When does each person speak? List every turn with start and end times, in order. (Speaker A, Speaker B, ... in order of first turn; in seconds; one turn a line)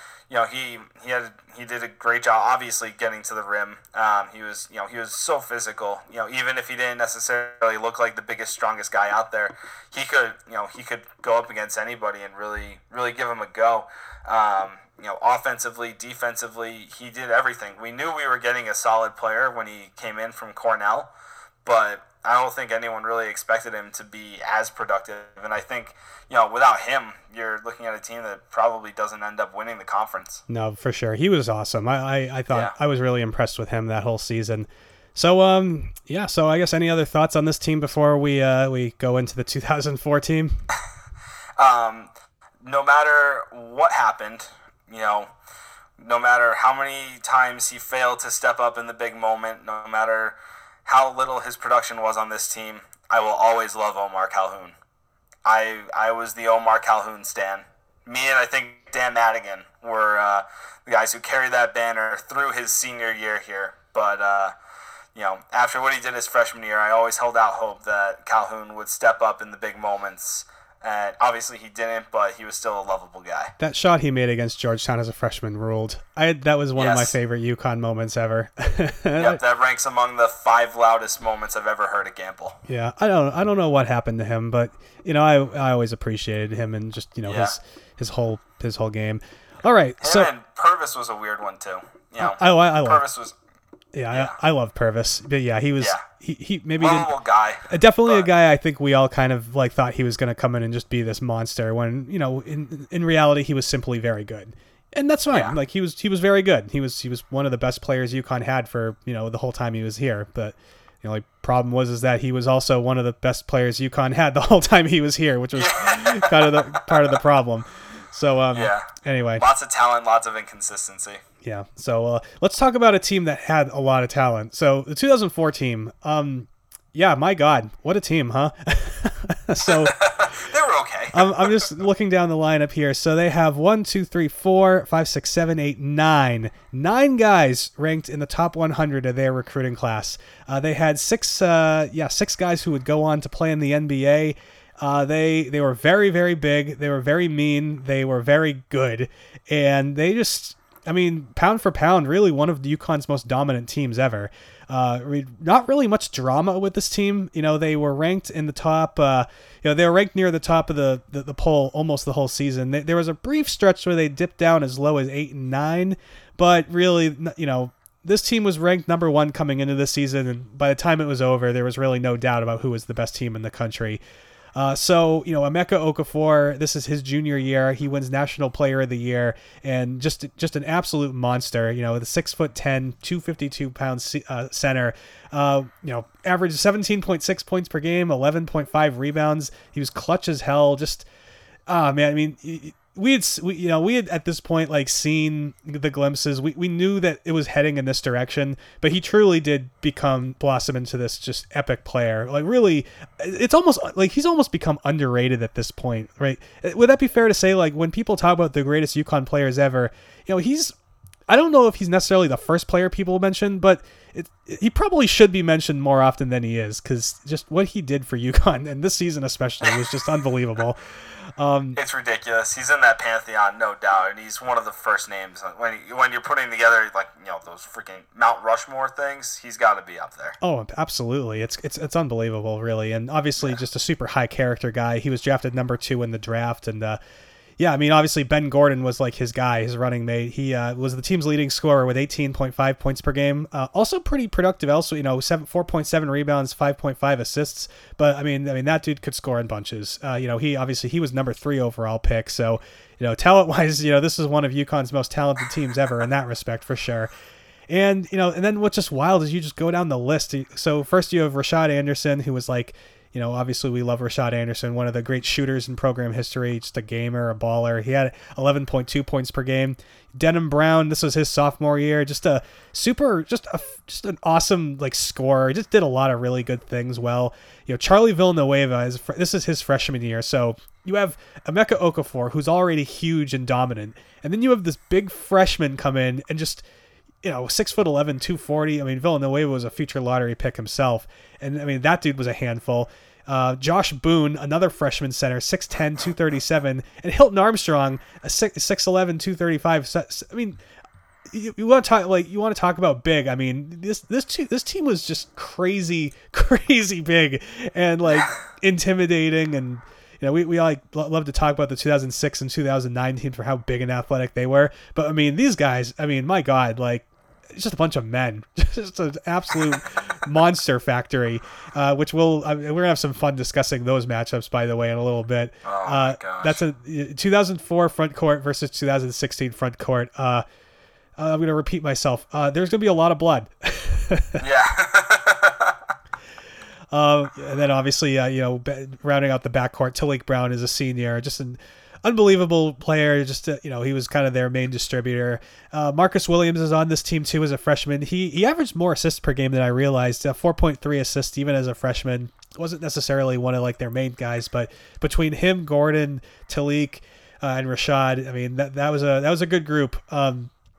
Speaker A: 0.3-21.1
Speaker A: 21.6-30.4
Speaker B: 30.5-40.6
Speaker A: 41.6-42.1
Speaker A: 42.6-45.3
Speaker A: 46.0-54.8
Speaker A: 55.4-64.5
Speaker A: 65.1-73.5
Speaker B: 73.6-79.4
Speaker A: 76.8-77.1
Speaker A: 79.2-82.6
Speaker B: 82.7-90.3
Speaker A: 87.2-87.5
Speaker A: 90.0-93.4
Speaker B: 92.2-93.0
Speaker B: 93.9-97.1
Speaker A: 96.8-98.3
Speaker B: 97.7-119.4
Speaker A: 115.5-117.2
Speaker A: 118.5-121.2
Speaker B: 121.4-130.1
Speaker A: 129.7-131.7
Speaker B: 131.1-174.0
Speaker B: 174.6-191.1
Speaker B: 191.7-210.7
Speaker B: 211.3-220.8
Speaker A: 219.6-219.9
Speaker B: 221.4-221.8
Speaker A: 221.8-230.4
Speaker B: 230.4-237.0
Speaker B: 237.6-257.1
Speaker B: 257.7-286.6
Speaker B: 287.2-300.6
Speaker B: 301.3-330.4
Speaker A: 325.6-326.6
Speaker B: 331.2-334.4
Speaker A: 334.4-335.8
Speaker B: 336.9-360.5